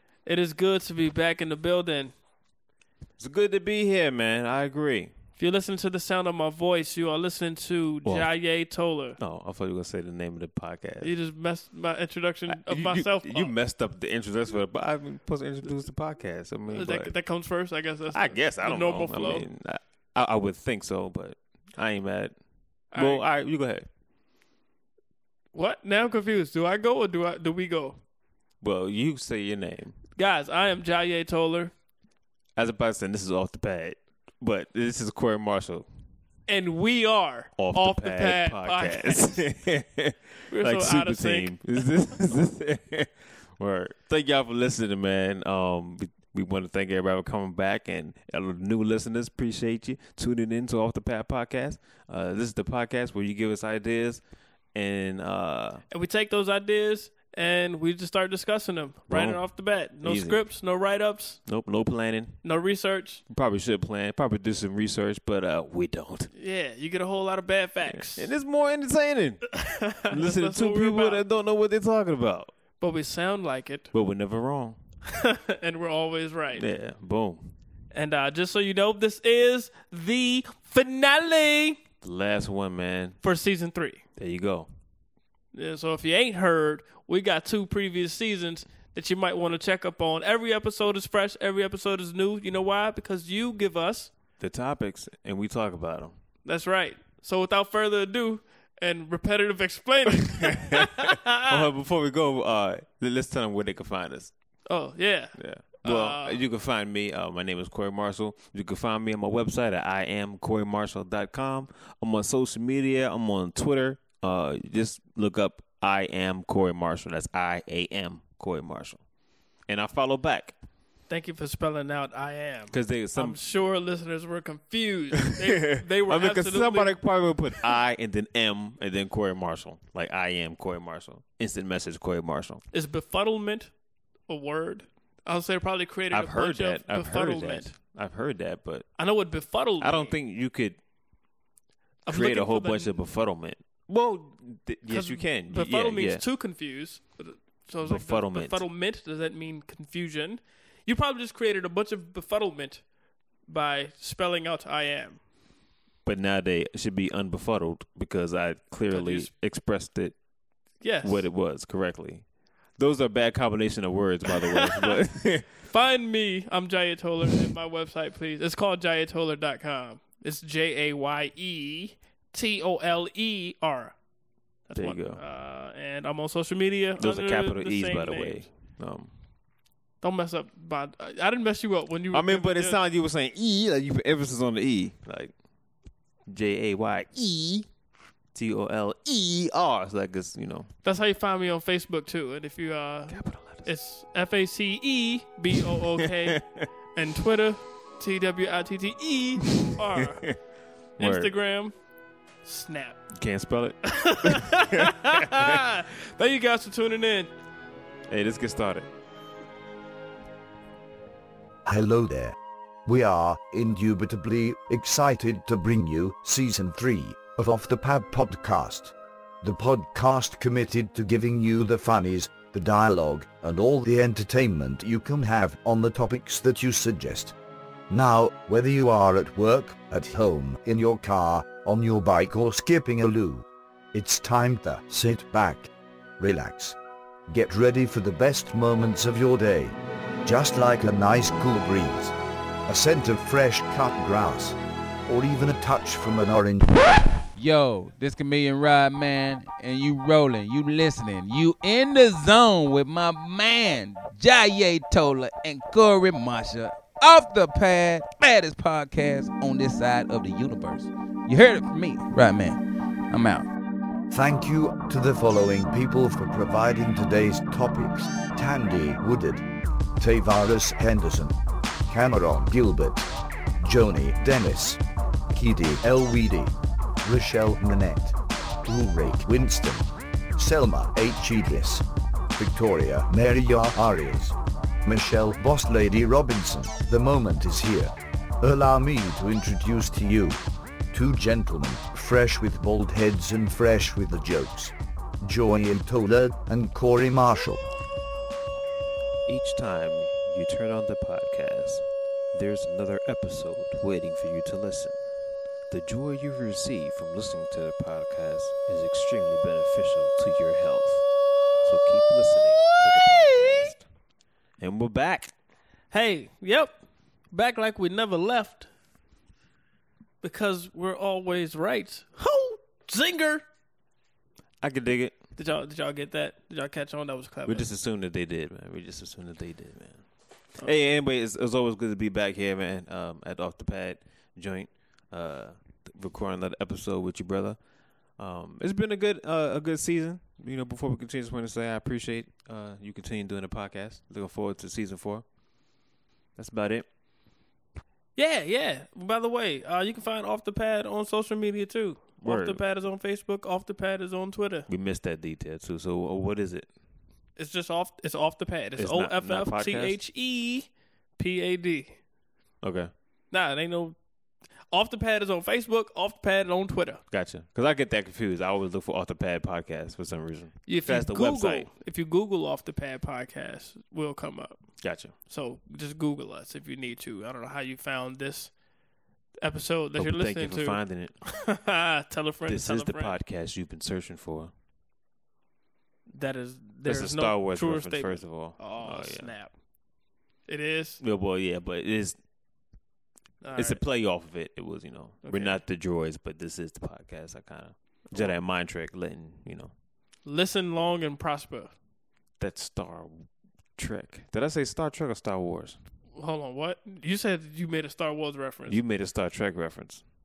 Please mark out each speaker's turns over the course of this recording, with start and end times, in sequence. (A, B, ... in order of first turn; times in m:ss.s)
0:00.2-0:02.1 A
0:03.2-0:05.1 B
0:05.4-0:09.2 A
0:08.0-0:08.3 B
0:09.2-0:11.1 B
0:11.0-0:13.5 A
0:12.5-0:17.1 B
0:16.7-0:19.5 A
0:18.1-0:22.3 B
0:22.9-0:23.2 A
0:22.9-0:23.9 B
0:25.5-0:28.0 A
0:28.6-0:30.0 B
0:30.1-0:31.7 A
0:32.6-0:35.9 B
0:36.5-0:39.4 A
0:37.6-0:54.2 B
0:40.5-0:41.6 A
0:54.7-0:55.8 B
0:55.9-1:01.4 A
0:59.1-0:59.4 B
1:00.0-1:00.4 B
1:01.4-1:02.4 B
1:02.4-1:03.2 A
1:03.3-1:06.3 B
1:06.3-1:08.3 A
1:07.9-1:12.5 B
1:09.5-1:11.2 A
1:12.8-1:13.9 A
1:13.9-1:14.8 B
1:15.1-1:16.6 A
1:16.5-1:17.5 B
1:17.9-1:21.8 A
1:22.0-1:23.2 B
1:23.2-1:24.0 A
1:24.2-1:24.7 B
1:25.5-1:34.1 A
1:34.4-1:36.1 B
1:36.4-1:41.6 A
1:40.3-1:44.3 B
1:44.6-1:46.4 A
1:45.4-1:59.0 B
1:59.7-2:00.5 B
2:01.1-2:07.0 A
2:02.7-2:03.4 B
2:05.4-2:12.6 B
2:12.7-2:13.7 A
2:14.3-2:17.7 A
2:16.1-2:18.9 B
2:19.0-2:20.1 A
2:19.8-2:20.8 B
2:22.0-2:22.9 A
2:22.1-2:26.2 B
2:24.9-2:32.8 A
2:27.8-2:28.6 B
2:33.5-2:35.2 A
2:36.0-2:40.2 B
2:38.9-2:39.3 A
2:40.8-2:41.3 A
2:41.0-2:42.2 B
2:42.8-2:45.5 B
2:44.3-2:45.0 A
2:45.6-2:54.0 A
2:54.7-2:58.4 A
2:54.8-2:55.2 B
2:57.0-2:59.1 B
3:00.0-3:02.8 A
3:02.1-3:05.3 B
3:06.3-3:07.7 B
3:08.3-3:10.7 B
3:10.8-3:16.4 A
3:13.1-3:13.7 B
3:16.3-3:16.6 B
3:16.9-3:20.2 A
3:21.0-3:21.3 B
3:21.0-3:21.7 A
3:22.4-3:23.0 A
3:23.1-3:25.6 B
3:23.8-3:27.3 A
3:28.1-3:28.9 B
3:31.6-3:47.3 C
3:47.9-3:56.8 C
3:57.3-4:02.1 C
4:02.7-4:06.8 C
4:07.4-4:23.5 D
4:24.1-4:29.4 C
4:30.0-4:31.3 C
4:31.9-4:33.1 C
4:33.6-4:34.8 C
4:35.3-4:57.6 C
4:59.3-5:05.0 B
5:05.7-5:11.0 B
5:11.6-5:13.8 B
5:14.6-5:15.3 B
5:15.9-5:16.8 A
5:17.3-5:18.7 A
5:20.2-5:23.4 A
5:24.6-5:25.1 B
5:25.4-5:27.7 A
5:27.5-5:30.0 B
5:30.6-5:37.6 B
5:38.2-5:45.2 B
5:46.4-5:46.8 B
5:48.2-5:54.7 A
5:52.2-5:52.6 B
5:54.7-5:56.7 B
5:57.4-6:02.0 A
5:58.8-6:00.0 B
6:02.6-6:02.9 B
6:03.3-6:04.0 A
6:04.7-6:07.0 A
6:07.1-6:11.7 B
6:10.7-6:14.6 A
6:14.8-6:15.1 B
6:15.2-6:18.5 A
6:19.4-6:23.2 A
6:20.0-6:21.1 B
6:22.5-6:24.5 B
6:26.1-6:29.5 A
6:26.8-6:29.3 B
6:30.5-6:31.0 A
6:31.0-6:32.2 B
6:33.4-6:33.8 A
6:33.6-6:39.7 B
6:35.2-6:35.6 A
6:40.2-6:41.7 A
6:42.4-6:45.8 B
6:46.1-6:48.8 A
6:48.7-6:50.0 B